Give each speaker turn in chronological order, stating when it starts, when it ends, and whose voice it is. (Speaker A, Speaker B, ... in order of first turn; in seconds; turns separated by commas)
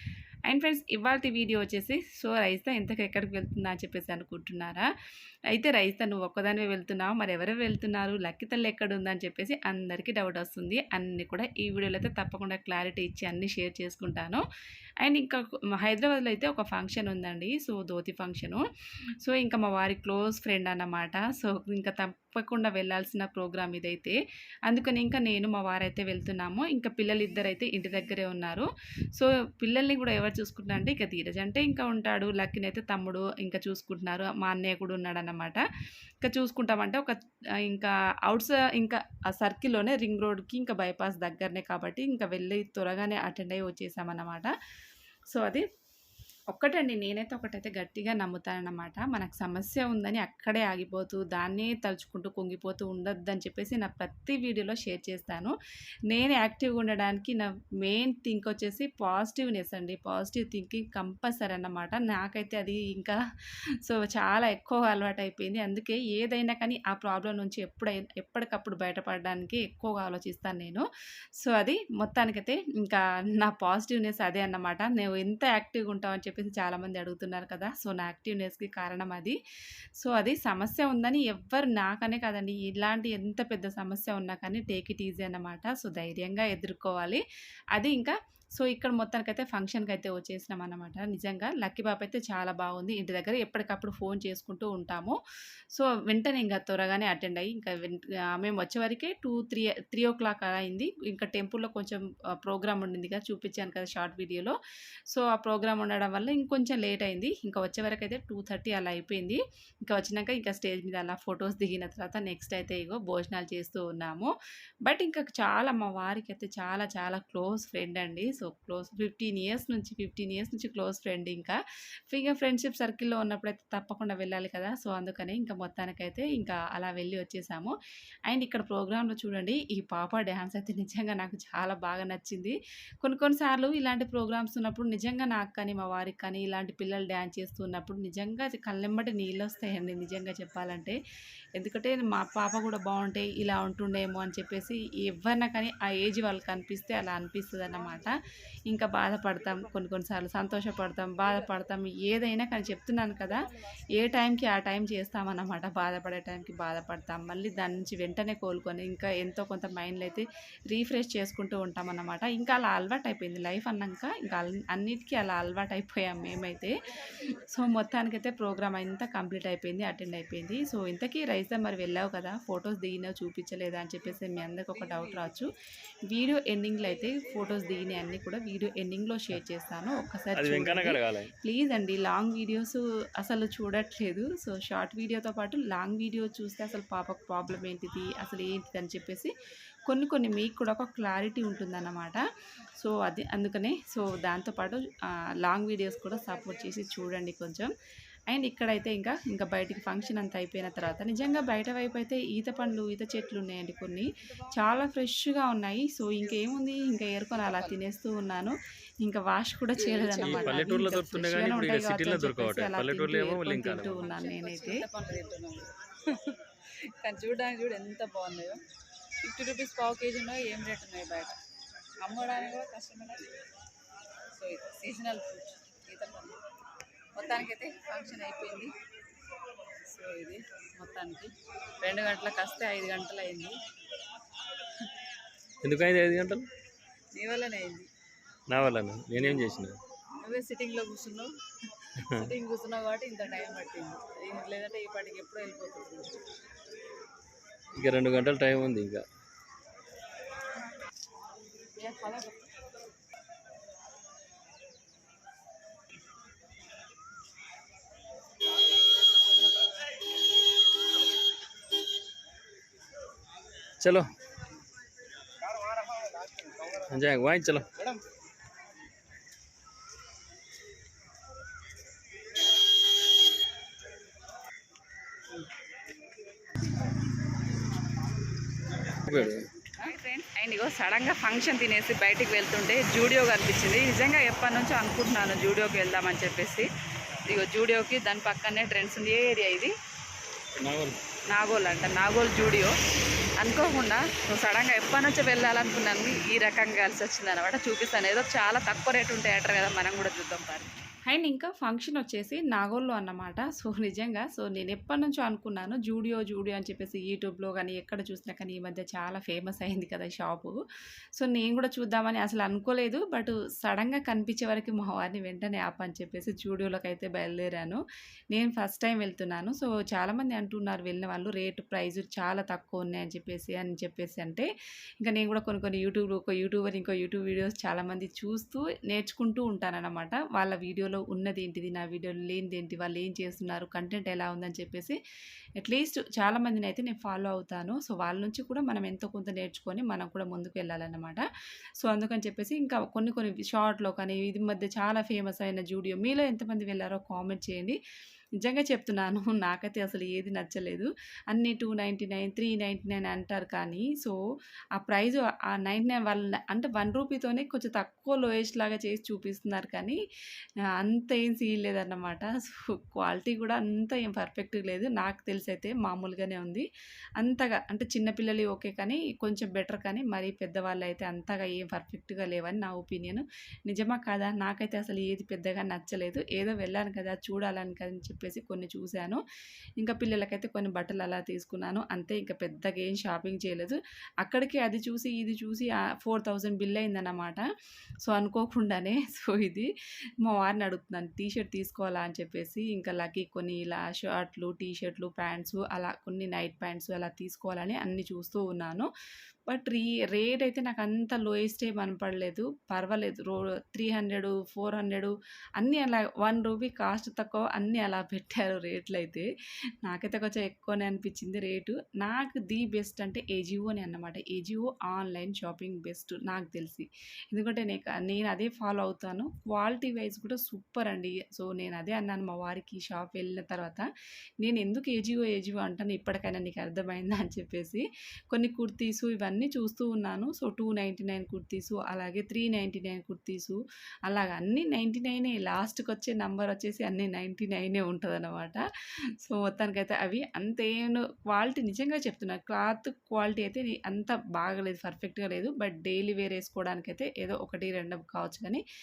Speaker A: 0.5-4.9, Speaker A: 5.5-14.4, Speaker A: 15.0-18.6, Speaker A: 19.2-35.6, Speaker A: 36.2-37.2, Speaker A: 37.7-44.5, Speaker A: 45.3-45.6, Speaker A: 46.5-55.5, Speaker A: 56.1-63.2, Speaker A: 63.9-70.8, Speaker A: 71.4-79.4, Speaker A: 80.0-87.2, Speaker A: 87.8-95.2, Speaker A: 95.8-104.6, Speaker A: 105.1-114.3, Speaker A: 114.8-121.6, Speaker A: 122.1-127.7, Speaker A: 128.3-141.0, Speaker A: 141.6-153.4, Speaker B: 151.2-151.6, Speaker B: 153.2-153.9, Speaker A: 153.9-175.5, Speaker B: 174.1-175.4, Speaker A: 176.1-189.3, Speaker C: 180.3-181.3, Speaker A: 189.9-192.2, Speaker A: 192.8-194.8, Speaker A: 195.4-197.7, Speaker B: 196.0-196.9, Speaker A: 198.3-214.8, Speaker B: 207.4-207.8, Speaker B: 209.8-210.8, Speaker C: 210.2-214.0, Speaker B: 214.0-216.4, Speaker B: 217.0-218.6, Speaker B: 219.2-221.3, Speaker B: 222.0-223.3, Speaker B: 224.4-226.4, Speaker B: 227.2-228.7, Speaker B: 229.9-233.6, Speaker C: 235.6-236.5, Speaker B: 237.2-237.9, Speaker C: 238.5-239.8, Speaker B: 239.2-239.6, Speaker B: 240.2-241.3, Speaker B: 241.9-246.2, Speaker C: 242.0-242.3, Speaker C: 247.8-249.0, Speaker B: 251.8-252.4, Speaker C: 263.8-264.1, Speaker C: 266.9-267.7, Speaker C: 279.1-279.5, Speaker B: 279.1-286.7, Speaker B: 287.3-289.7, Speaker C: 290.6-291.0, Speaker B: 291.3-292.7, Speaker B: 293.4-300.7, Speaker A: 301.1-310.6, Speaker A: 311.2-317.8, Speaker A: 318.3-324.5, Speaker A: 325.0-335.0, Speaker A: 335.6-341.2, Speaker A: 341.8-347.8, Speaker A: 348.4-354.2, Speaker A: 354.8-360.0, Speaker A: 360.8-366.7, Speaker A: 367.2-379.2, Speaker A: 379.8-387.5, Speaker A: 388.1-389.7, Speaker A: 390.2-398.9, Speaker A: 399.5-409.3, Speaker A: 409.8-423.9, Speaker A: 424.4-438.6, Speaker A: 439.2-448.6